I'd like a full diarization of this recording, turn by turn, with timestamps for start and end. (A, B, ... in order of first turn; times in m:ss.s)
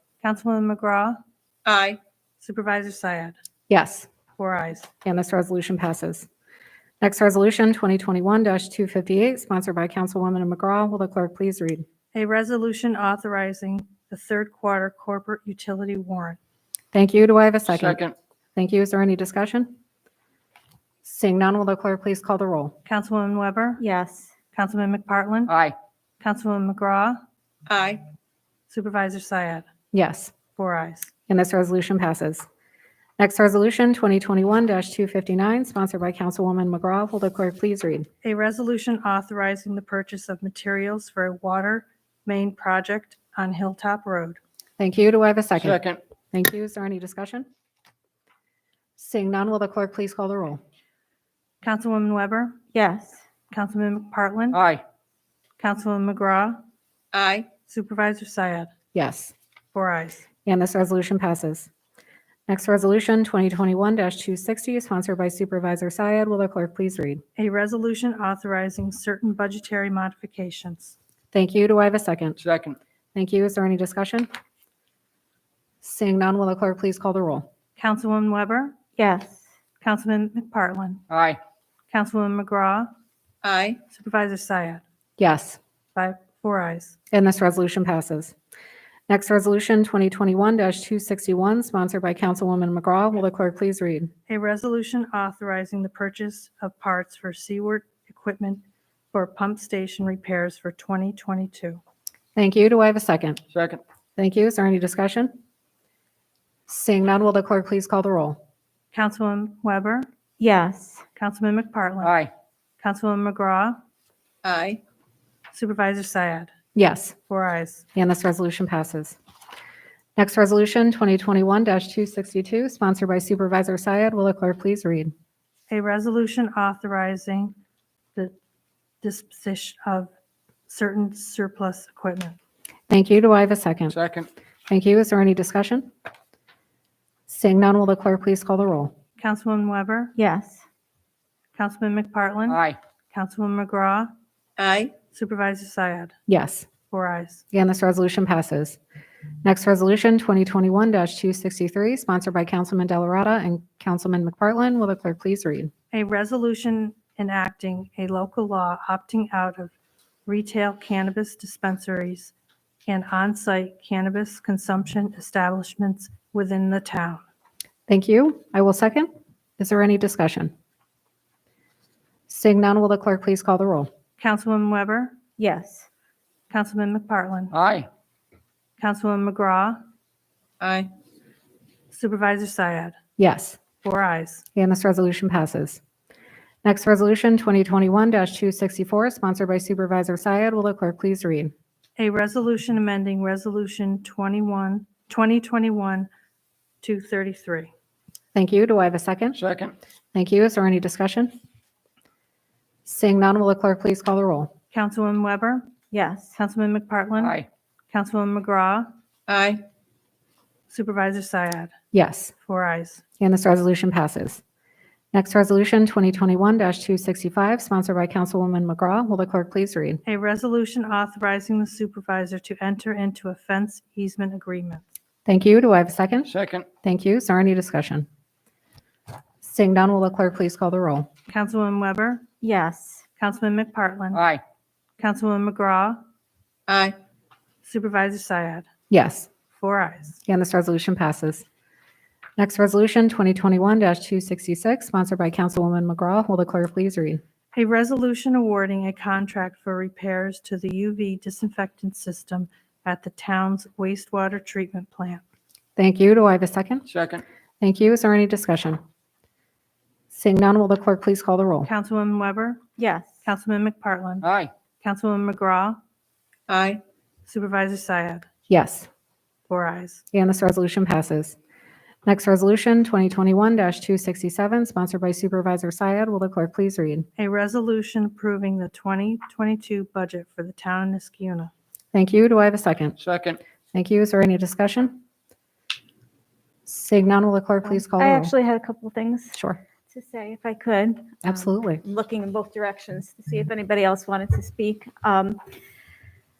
0:00.2-0:01.2 A
0:01.6-0:02.0 B
0:02.4-0:03.4 A
0:03.7-0:04.1 C
0:04.4-0:04.9 A
0:05.0-0:06.3 C
0:07.0-0:11.8 C
0:12.1-0:16.4 A
0:16.9-0:18.0 C
0:17.7-0:18.1 D
0:18.6-0:19.7 C
0:21.0-0:22.8 C
0:22.8-0:23.8 A
0:23.8-0:24.3 E
0:24.5-0:25.5 A
0:25.5-0:25.7 D
0:26.2-0:27.2 A
0:27.7-0:28.0 B
0:28.7-0:29.7 A
0:29.9-0:30.3 C
0:30.6-0:31.1 A
0:31.3-0:32.4 C
0:33.2-0:38.1 C
0:38.2-0:44.4 A
0:44.8-0:47.4 C
0:45.6-0:46.0 D
0:49.0-0:50.6 C
0:51.6-0:52.6 A
0:52.7-0:53.2 E
0:53.5-0:54.6 A
0:54.5-0:54.8 D
0:55.6-0:56.6 A
0:57.1-0:57.5 B
0:57.6-0:58.7 A
0:58.9-0:59.3 C
0:59.7-1:00.2 A
1:00.4-1:01.7 C
1:02.5-1:07.2 C
1:07.4-1:10.9 A
1:11.3-1:12.4 C
1:12.4-1:12.8 D
1:13.1-1:14.3 C
1:15.8-1:17.5 C
1:17.8-1:18.8 A
1:19.0-1:19.4 E
1:19.8-1:21.0 A
1:21.1-1:21.4 D
1:21.9-1:22.9 A
1:23.4-1:23.8 B
1:23.9-1:24.8 A
1:25.2-1:25.6 C
1:25.9-1:27.0 A
1:27.1-1:28.3 C
1:29.1-1:34.1 C
1:34.3-1:41.8 A
1:42.3-1:43.4 C
1:43.5-1:43.8 D
1:44.2-1:45.4 C
1:46.7-1:48.4 C
1:48.9-1:50.1 A
1:50.4-1:51.0 E
1:51.2-1:52.2 A
1:52.0-1:52.3 D
1:52.8-1:53.8 A
1:54.4-1:54.8 B
1:55.5-1:56.5 A
1:56.7-1:57.1 C
1:57.3-1:57.8 A
1:58.0-1:59.2 C
2:00.2-2:05.1 C
2:05.7-2:07.5 A
2:09.0-2:10.1 A
2:10.7-2:12.4 A
2:12.9-2:14.0 C
2:13.9-2:14.3 D
2:14.7-2:15.9 C
2:17.3-2:18.9 C
2:19.2-2:20.1 A
2:20.2-2:20.6 E
2:21.5-2:22.6 A
2:22.5-2:22.8 D
2:23.1-2:24.1 A
2:24.6-2:24.9 B
2:25.0-2:26.1 A
2:26.3-2:26.7 C
2:26.9-2:27.4 A
2:27.5-2:28.8 C
2:29.4-2:35.7 C
2:35.9-2:39.7 A
2:40.2-2:42.3 A
2:42.9-2:47.2 A
2:47.9-2:50.5 C
2:52.3-2:53.9 C
2:54.2-2:55.2 A
2:55.4-2:55.8 E
2:56.5-2:57.5 A
2:57.5-2:57.9 D
2:58.8-2:59.8 A
3:00.6-3:00.9 B
3:01.9-3:03.0 A
3:03.2-3:03.6 C
3:03.8-3:04.4 A
3:04.6-3:05.8 C
3:06.6-3:11.5 C
3:12.0-3:16.1 A
3:16.8-3:17.7 A
3:18.3-3:19.4 C
3:19.3-3:19.7 D
3:20.1-3:21.3 C
3:22.8-3:24.5 C
3:24.7-3:25.7 A
3:25.9-3:26.4 E
3:26.4-3:27.4 A
3:27.2-3:27.5 D
3:27.9-3:28.9 A
3:29.3-3:29.6 B
3:30.7-3:31.7 A
3:31.9-3:32.3 C
3:32.4-3:33.0 A
3:33.2-3:34.4 C
3:35.1-3:40.0 C
3:40.0-3:44.8 A
3:45.2-3:46.3 C
3:46.3-3:46.7 D
3:46.8-3:48.0 C
3:49.4-3:51.1 C
3:51.3-3:52.2 A
3:52.4-3:53.0 E
3:53.2-3:54.2 A
3:54.1-3:54.4 D
3:55.0-3:56.0 A
3:56.7-3:56.9 B
3:57.6-3:58.7 A
3:58.9-3:59.3 C
3:59.5-4:00.2 A
4:00.2-4:01.4 C
4:02.4-4:07.2 C
4:07.5-4:15.2 A
4:15.8-4:16.8 C
4:16.9-4:17.2 D
4:17.6-4:18.8 C
4:20.1-4:21.7 C
4:21.6-4:22.6 A
4:22.8-4:23.1 E
4:23.2-4:24.2 A
4:24.2-4:24.5 D
4:24.8-4:25.8 A
4:26.5-4:26.8 B
4:27.2-4:28.2 A
4:28.5-4:28.9 C
4:29.5-4:30.0 A
4:30.1-4:31.4 C
4:32.0-4:37.1 C
4:37.2-4:41.5 A
4:41.9-4:43.0 C
4:43.0-4:43.4 D
4:43.7-4:45.0 C
4:46.6-4:48.3 C
4:48.0-4:49.4 E
4:49.3-4:49.6 C
4:49.9-4:51.3 E
4:51.2-4:51.8 C
4:51.8-4:55.4 E